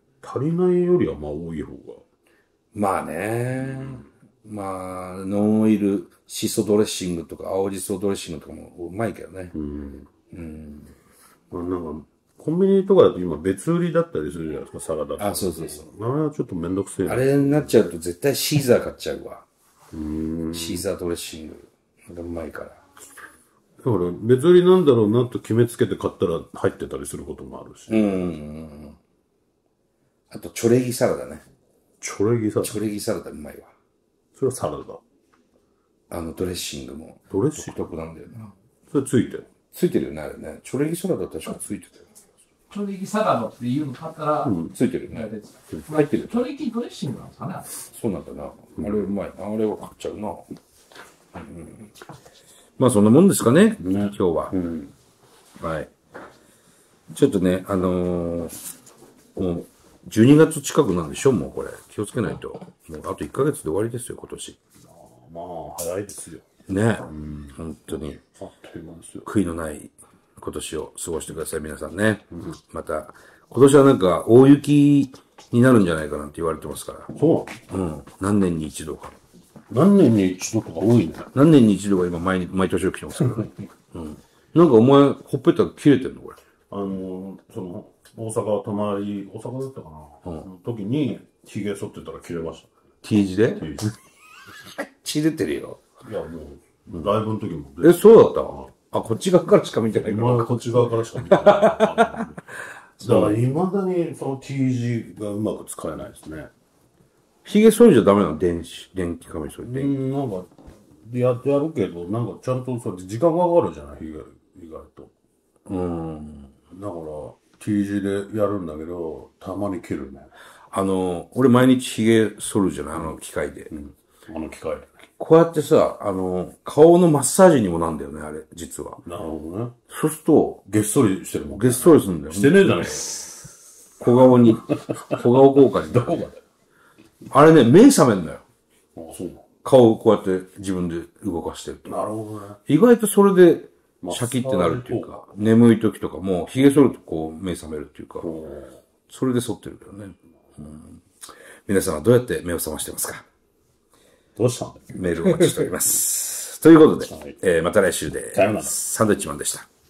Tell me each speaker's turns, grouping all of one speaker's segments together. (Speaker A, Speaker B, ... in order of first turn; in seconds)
Speaker A: 0.2-2.0, 9.5-10.1, 11.5-17.8, 19.9-20.9, 23.8-28.2, 32.0-32.8, 34.4-35.0, 37.3-37.9, 38.9-39.5, 44.4-44.7, 48.8-49.0, 53.8-54.9, 64.9-66.4, 67.1-67.5, 68.3-69.3, 77.1-77.6, 79.7-81.3, 86.7-92.7, 93.6-93.9, 96.0-98.7, 99.9-102.4, 103.0-106.5, 109.6-110.5, 111.0-115.1, 116.7-120.3, 123.7-124.9, 129.0-129.8, 130.7-133.5, 134.6-136.4, 138.9-139.4, 141.8-142.6, 144.0-145.2, 148.2-148.8, 154.3-155.0, 157.1-157.4, 158.3-158.8
Speaker B: 2.7-9.5, 10.3-10.9, 15.2-15.8, 17.1-19.4, 20.5-22.8, 27.9-29.0, 30.3-31.4, 32.6-33.7, 36.1-38.5, 39.7-42.1, 44.7-45.3, 45.9-46.4, 47.9-50.5, 51.3-51.9, 52.8-54.5, 55.6-55.9, 57.1-58.5, 59.3-64.6, 66.7-68.2, 69.2-77.1, 77.7-79.2, 81.3-86.4, 93.0-93.8, 94.8-95.8, 97.8-102.3, 103.0-103.4, 107.4-109.9, 115.7-116.5, 120.7-123.7, 125.2-129.0, 129.9-130.6, 131.4-132.9, 134.0-136.2, 137.3-138.4, 139.6-142.0, 142.7-148.3, 149.1-151.0, 151.7-153.2, 154.9-159.7
Speaker C: 42.7-47.7